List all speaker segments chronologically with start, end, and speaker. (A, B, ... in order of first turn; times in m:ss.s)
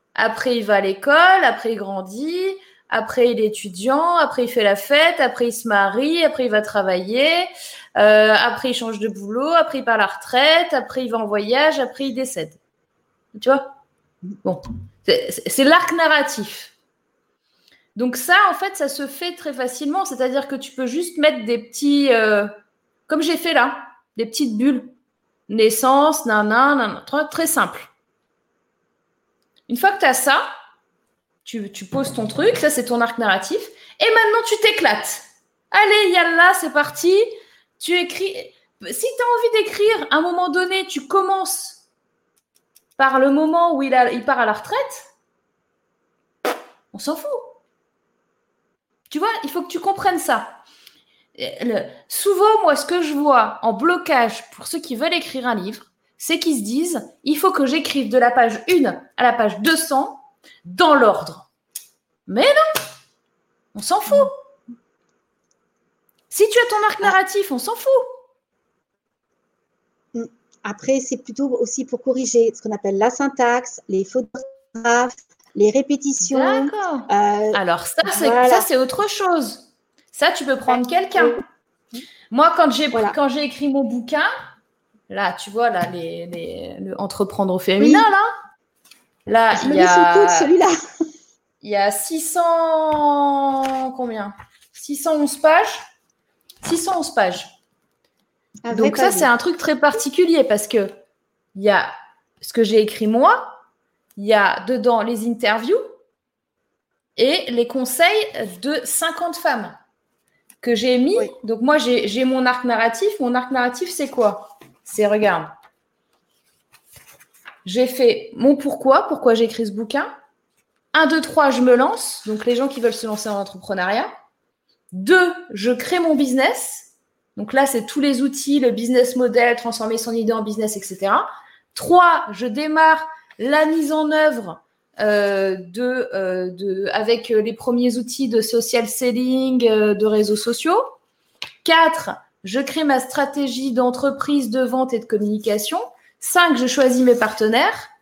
0:00.2-0:12.6 A
0:13.3-0:13.7 A
0:14.4-0:16.7 A
0:17.9-0:22.5 A
0:23.1-0:24.9 A
0:25.5-0:27.9 A
0:29.7-0:30.4 A
0:31.4-0:37.2 A
0:37.8-0:41.8 A
0:43.0-0:45.1 A
0:46.9-0:47.5 A
0:49.1-0:50.6 A
0:51.4-1:01.5 A
1:02.3-1:02.6 A
1:03.7-1:04.3 A
1:06.3-1:08.1 A
1:10.1-1:18.6 B
1:16.3-1:21.4 A
1:20.7-1:21.4 B
1:22.3-1:24.3 A
1:25.1-1:28.3 A
1:27.8-1:28.1 B
1:29.3-1:30.5 A
1:29.5-1:30.8 B
1:31.6-1:35.8 A
1:36.6-1:37.5 A
1:38.6-1:39.3 B
1:38.7-1:40.9 A
1:41.5-1:43.6 A
1:44.2-1:45.8 A
1:47.2-1:49.8 A
1:50.6-1:55.5 A
1:57.6-2:00.1 A
2:00.9-2:04.1 A
2:04.9-2:20.9 A
2:21.6-2:27.9 A